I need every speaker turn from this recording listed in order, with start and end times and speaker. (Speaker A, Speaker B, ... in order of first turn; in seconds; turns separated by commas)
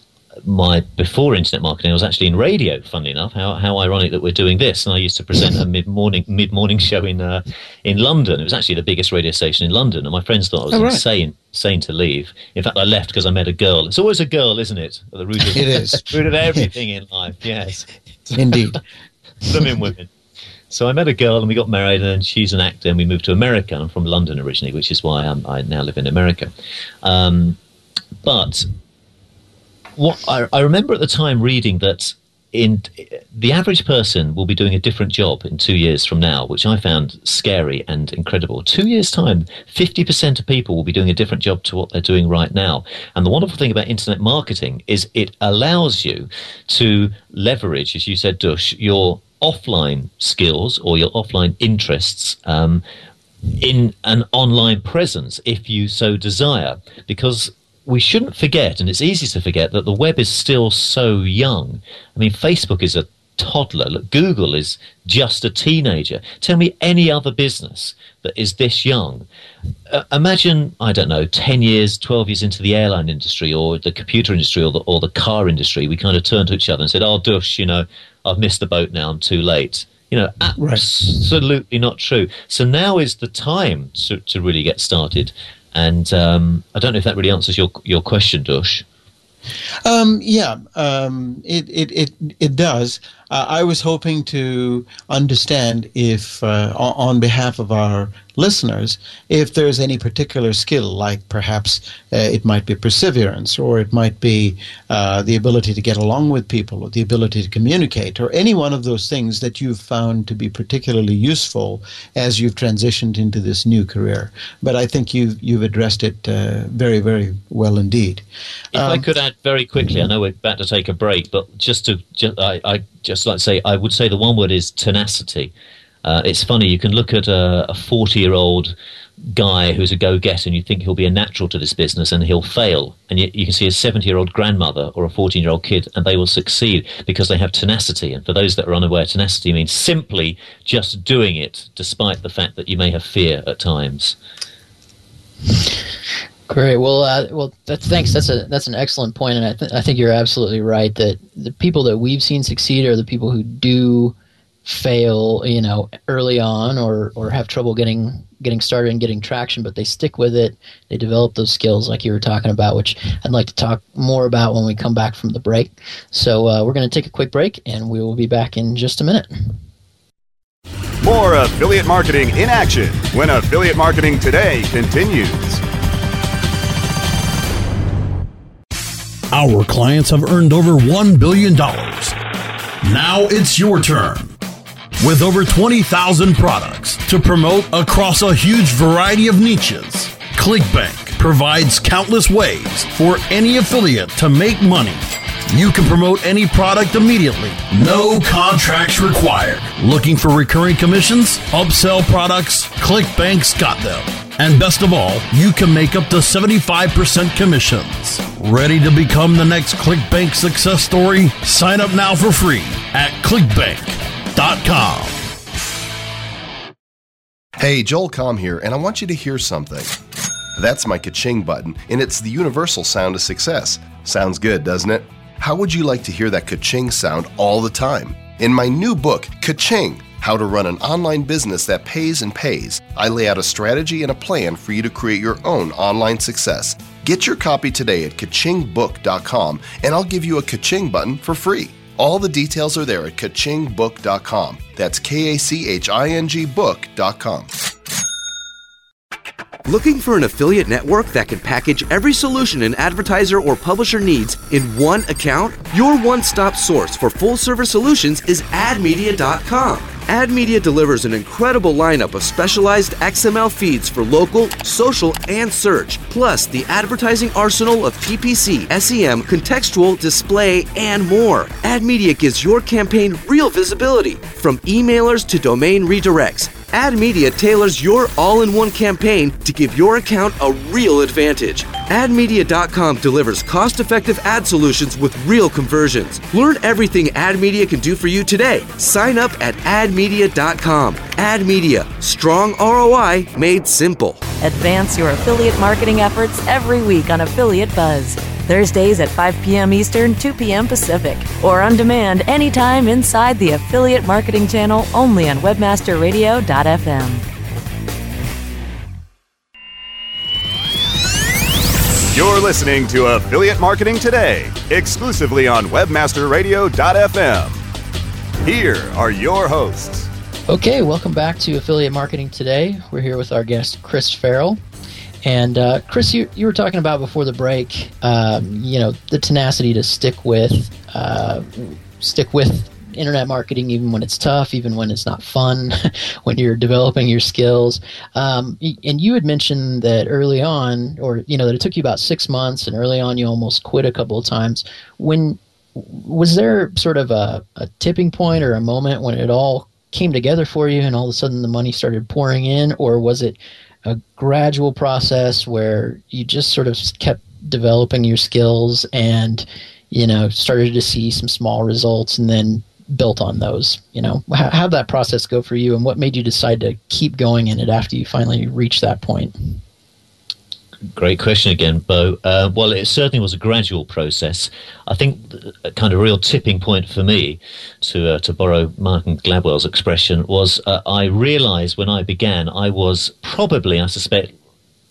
Speaker A: 0.4-18.8, Speaker B: 10.7-11.0, Speaker B: 15.5-16.7, Speaker B: 18.4-18.8, Speaker A: 19.4-20.1, Speaker A: 20.7-26.5, Speaker A: 27.0-27.6, Speaker A: 28.2-28.7, Speaker A: 30.0-52.8, Speaker A: 53.5-69.3, Speaker A: 69.9-88.8, Speaker B: 80.6-80.8, Speaker B: 89.8-119.0, Speaker A: 118.7-125.5, Speaker A: 126.0-128.8, Speaker A: 129.3-144.2, Speaker C: 146.5-169.6, Speaker D: 171.0-175.6, Speaker E: 179.3-182.2, Speaker E: 182.8-184.3, Speaker E: 185.0-215.3, Speaker F: 217.6-220.0, Speaker F: 220.6-247.5, Speaker G: 249.7-294.2, Speaker H: 294.4-307.2, Speaker D: 312.1-317.6, Speaker D: 318.4-320.1, Speaker C: 320.5-324.6, Speaker C: 325.2-369.6, Speaker A: 370.9-384.3